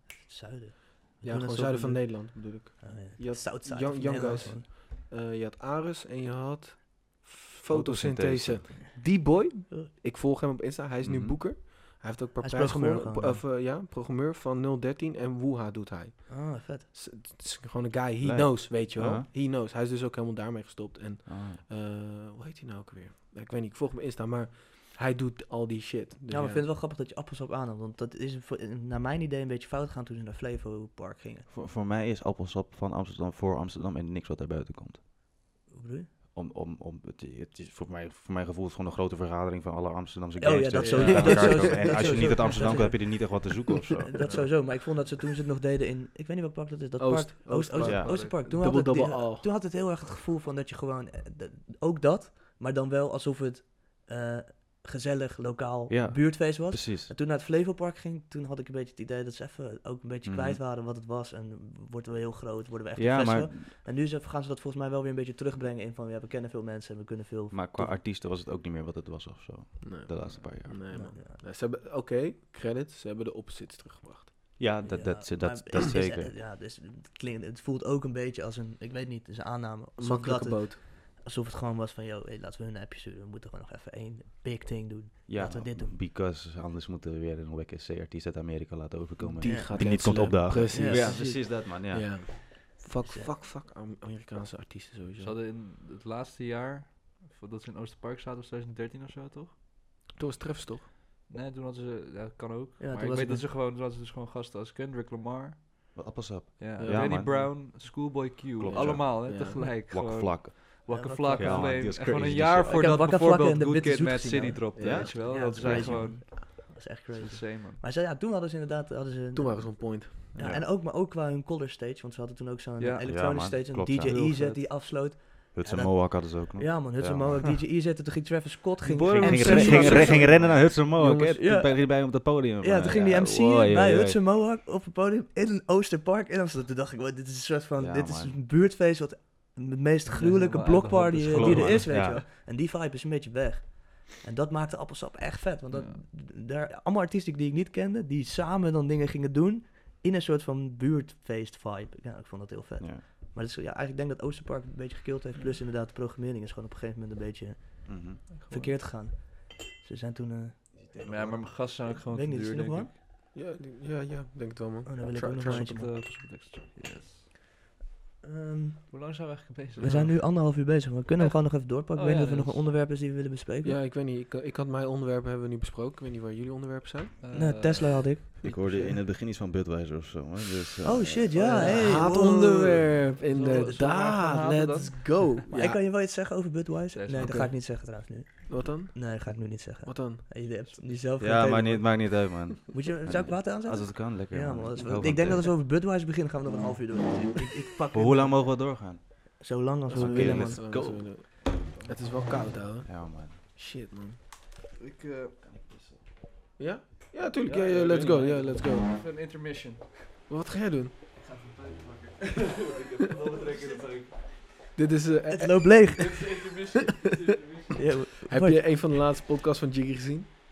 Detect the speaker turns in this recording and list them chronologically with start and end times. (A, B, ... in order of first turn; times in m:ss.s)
0:00.1-0:04.7 A
0:01.2-0:26.6 B
0:07.7-0:08.7 C
0:11.0-0:11.4 C
0:12.4-0:13.4 A
0:16.3-0:16.9 A
0:18.2-0:19.3 C
0:21.2-0:21.6 C
0:26.3-0:31.5 A
0:31.5-0:35.0 C
0:35.7-0:36.1 A
0:36.3-0:44.4 C
0:40.4-1:08.0 A
0:40.5-0:42.3 B
0:40.8-0:41.6 D
0:44.2-0:44.5 D
0:47.0-0:49.5 B
0:47.8-0:48.2 C
0:48.0-0:48.3 D
0:55.9-0:57.1 C
1:00.2-1:00.6 C
1:03.0-1:03.7 C
1:07.5-1:10.9 C
1:09.8-1:14.3 B
1:10.9-1:11.4 A
1:14.6-1:16.3 C
1:14.8-1:26.0 A
1:20.0-1:20.8 B
1:25.3-1:32.4 C
1:29.2-1:35.3 B
1:29.4-1:31.4 A
1:33.0-1:33.3 A
1:35.2-1:39.5 D
1:40.1-1:40.8 B
1:41.3-1:57.8 D
1:42.8-1:43.5 A
1:45.9-1:48.0 C
1:46.8-1:47.4 B
1:48.6-1:53.0 C
1:48.7-1:49.6 B
1:50.9-1:52.0 A
1:52.7-2:40.8 A
1:54.8-1:55.5 B
1:54.8-1:56.1 C
1:59.3-2:00.2 B
2:02.8-2:03.0 D
2:03.0-2:04.1 C
2:04.0-2:04.6 D
2:05.5-2:07.6 C
2:08.8-2:10.7 D
2:09.2-2:14.2 C
2:09.9-2:10.3 B
2:17.8-2:18.4 C
2:20.1-2:22.1 D
2:21.3-2:22.2 C
2:25.7-2:26.0 D
2:37.8-2:38.2 C
2:38.3-2:38.7 D
2:40.7-2:41.6 C
2:41.0-2:42.9 D
2:41.8-2:42.9 A
2:43.3-2:45.6 B
2:44.8-2:45.9 A
2:45.4-2:47.3 D
2:48.2-2:49.2 A
2:48.9-2:50.3 D
2:49.8-2:53.8 A
2:51.2-2:52.7 D
2:53.6-2:57.5 B
2:57.2-2:58.1 D
2:57.3-2:58.3 A
2:58.4-3:01.4 C
2:58.4-2:58.9 B
3:00.8-3:02.9 A
3:01.4-3:05.8 B
3:01.5-3:02.2 D
3:03.3-3:05.2 D
3:05.5-3:18.7 A
3:06.9-3:07.5 D
3:07.2-3:07.5 B
3:08.5-3:09.2 B
3:09.8-3:10.2 B
3:11.2-3:15.5 C
3:17.9-3:21.4 C
3:19.4-3:20.6 A
3:19.9-3:24.2 B
3:21.4-3:22.0 D
3:22.8-3:23.4 C
3:24.8-3:25.4 D
3:25.4-3:26.0 C
3:26.6-3:28.9 B
3:27.4-3:30.1 D
3:27.8-3:28.2 C
3:30.3-3:30.9 B
3:31.2-3:34.7 D
3:34.8-3:36.0 B
3:35.3-3:36.4 A
3:36.0-3:37.9 D
3:37.8-3:38.6 A
3:38.2-3:40.3 B